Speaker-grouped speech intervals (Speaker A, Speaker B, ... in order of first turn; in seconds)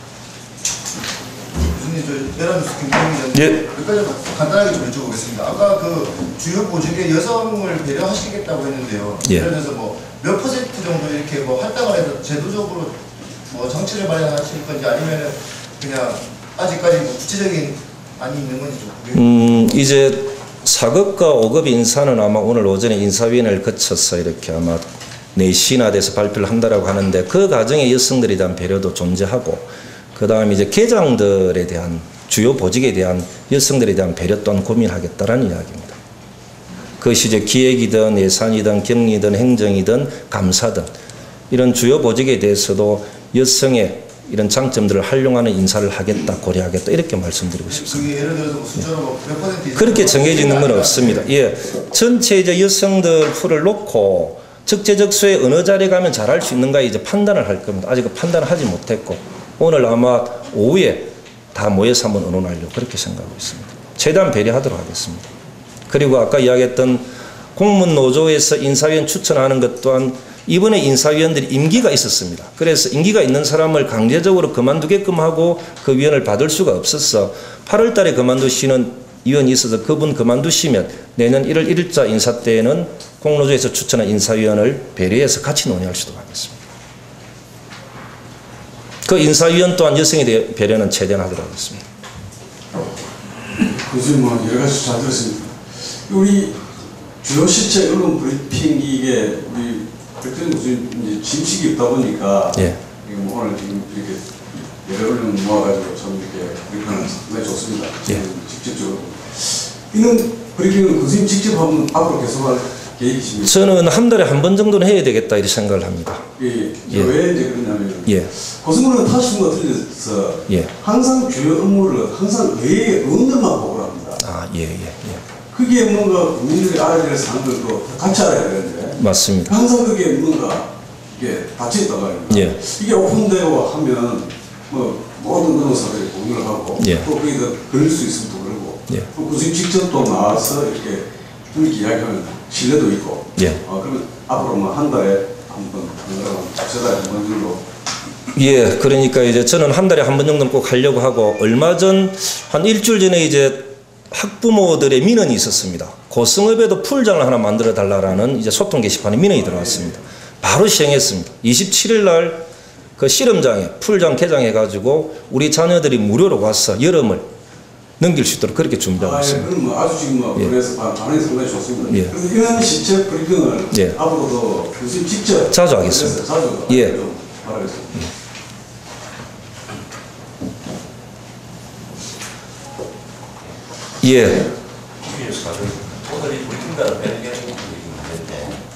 Speaker A: 1.7-19.8, 47.7-51.3
Speaker B: 3.4-3.6, 19.1-36.0, 37.0-40.9, 41.5-48.0, 49.8-65.3, 65.9-86.6, 89.0-91.8, 113.4-116.3, 116.9-117.1, 124.2-125.2, 129.0-129.6, 132.3-132.6, 136.8-137.1, 148.3-162.5, 163.0-167.3, 168.0-169.5, 175.5-177.0, 184.0-184.5
Speaker C: 93.6-113.7, 116.4-124.2, 125.5-147.7, 159.4-160.0, 169.0-178.1
Speaker D: 185.0-188.6